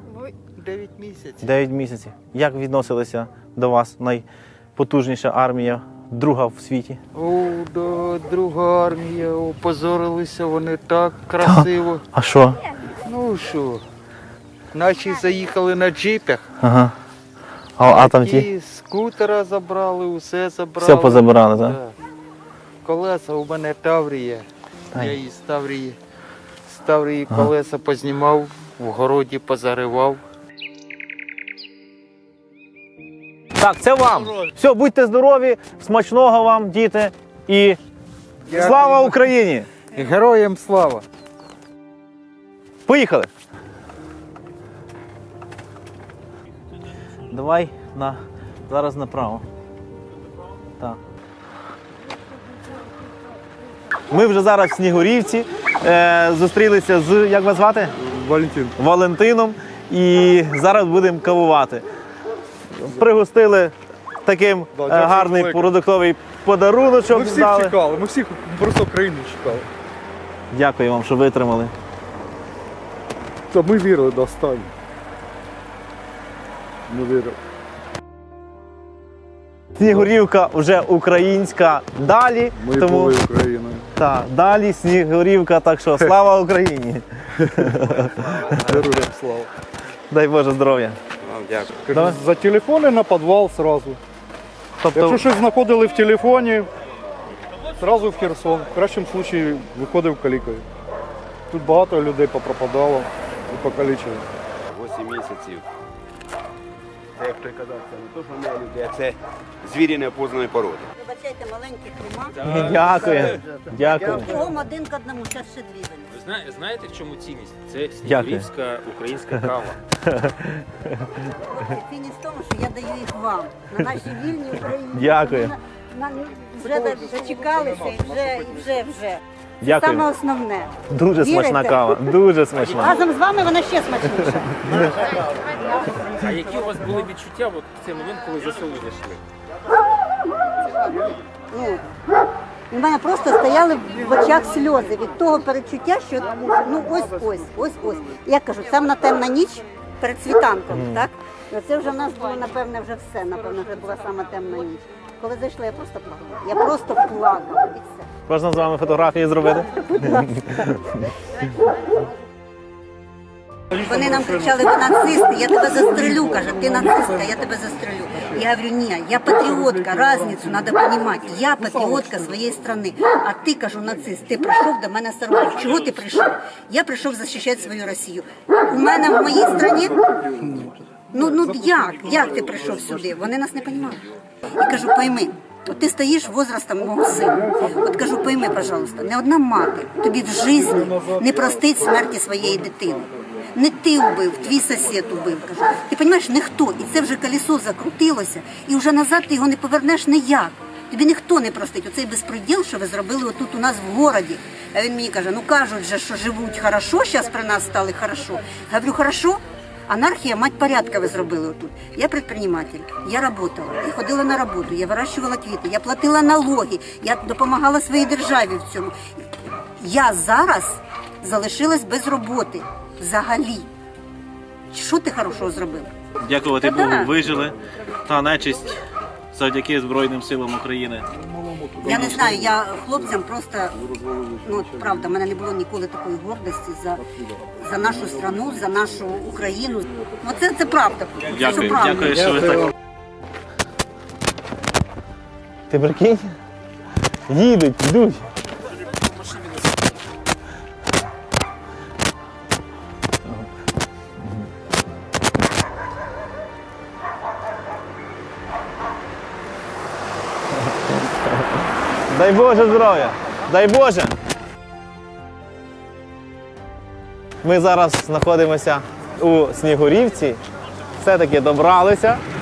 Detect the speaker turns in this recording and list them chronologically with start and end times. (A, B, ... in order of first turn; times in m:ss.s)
0:00.1-0:01.5 A
0:01.4-0:04.3 B
0:04.8-0:07.0 B
0:07.2-0:12.0 A
0:11.4-0:12.6 B
0:13.0-0:13.8 A
0:14.7-0:16.5 A
0:16.6-0:16.9 B
0:17.8-0:18.5 B
0:17.8-0:21.9 A
0:20.8-0:21.8 B
0:22.8-0:26.0 A
0:26.7-0:30.2 A
0:33.6-0:37.8 B
0:38.5-0:39.3 A
0:38.5-0:39.7 B
0:39.9-0:41.0 A
0:42.9-0:43.3 B
0:47.3-0:49.4 B
0:54.1-0:57.9 B
0:58.0-0:58.8 C
0:58.8-1:01.8 B
1:02.8-1:03.7 B
1:04.2-1:07.8 B
1:04.7-1:05.7 C
1:07.1-1:09.7 C
1:10.5-1:11.7 B
1:13.5-1:14.7 C
1:16.9-1:17.4 C
1:19.8-1:23.2 B
1:22.6-1:23.9 C
1:24.0-1:28.4 B
1:28.3-1:28.7 A
1:28.6-1:29.5 C
1:30.1-1:31.0 B
1:31.3-1:31.7 A
1:31.8-1:34.0 C
1:31.9-1:32.2 B
1:34.8-1:35.3 B
1:34.9-1:36.7 C
1:37.8-1:40.7 C
1:41.5-1:44.2 C
1:44.7-1:45.6 D
1:47.2-1:50.9 D
1:51.0-1:56.1 E
1:52.4-1:52.8 F
1:52.4-1:54.4 B
1:56.1-1:59.8 F
1:58.0-1:58.5 B
1:59.9-2:01.2 B
2:01.5-2:12.0 E
2:04.9-2:05.6 B
2:09.6-2:10.1 B
2:10.9-2:13.0 B
2:12.7-2:14.9 E
2:16.2-2:19.2 F
2:21.5-2:21.9 E
2:22.7-2:38.1 E
2:30.7-2:31.1 B
2:38.3-2:41.0 B
2:39.8-2:40.4 E
2:43.8-3:00.0 E
3:01.1-3:39.0 E
3:39.8-3:43.7 E
3:44.7-3:45.9 E
3:46.2-3:48.8 B
3:46.6-3:47.1 E
3:49.3-3:51.1 B
3:51.8-3:53.8 E
3:51.8-3:52.3 B
3:54.4-4:02.1 E
4:01.2-4:02.7 B
4:05.7-4:06.3 B
4:07.3-4:08.3 B
4:09.2-4:09.8 F
4:20.6-4:24.2 B
4:27.4-4:30.4 B
4:31.0-4:32.2 B